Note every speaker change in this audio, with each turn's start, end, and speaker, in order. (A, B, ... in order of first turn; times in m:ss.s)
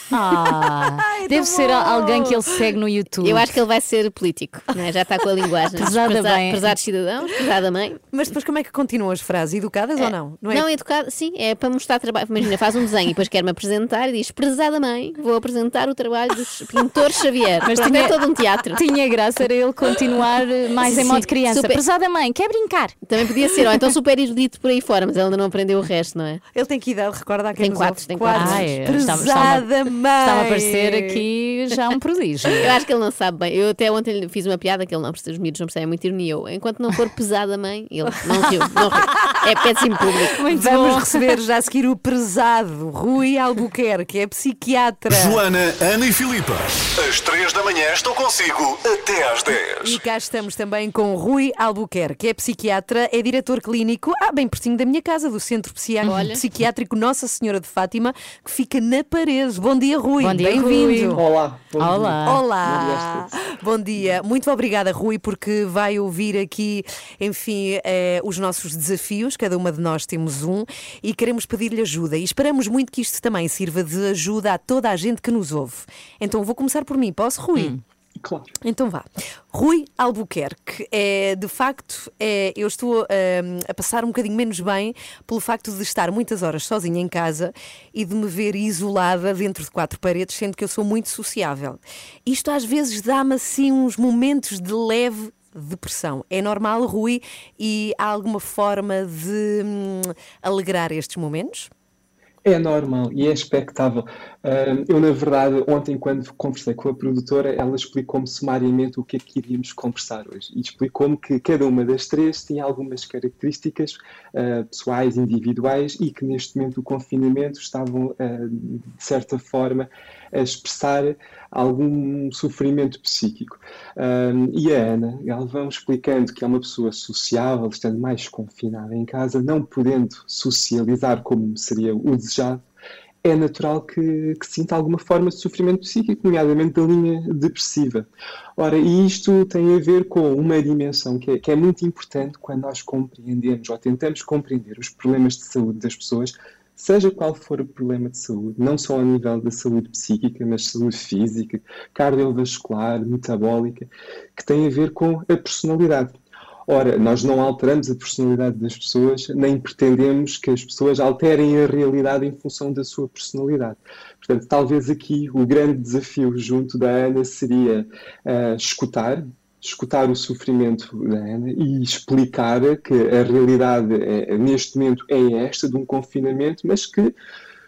0:00.1-0:03.5 A
0:01.0-0:02.7 B
0:03.2-0:08.0 C
0:05.8-0:06.8 A
0:08.1-0:10.7 B
0:10.0-0:18.8 C
0:17.6-0:18.2 A
0:18.8-0:23.0 A
0:20.8-0:21.8 C
0:23.1-0:26.4 C
0:26.5-0:31.2 B
0:27.6-0:28.7 C
0:28.3-0:32.7 A
0:32.6-0:40.4 C
0:40.4-0:41.4 A
0:40.5-0:45.4 B
0:45.1-0:50.0 D
0:49.8-1:01.2 B
0:56.1-0:56.4 C
1:00.2-1:01.2 A
1:01.2-1:03.4 E
1:01.8-1:02.4 A
1:02.2-1:17.8 B
1:17.6-1:17.8 A
1:18.2-1:18.6 E
1:18.6-1:41.7 B
1:42.4-2:12.6 E
2:13.2-2:57.2 E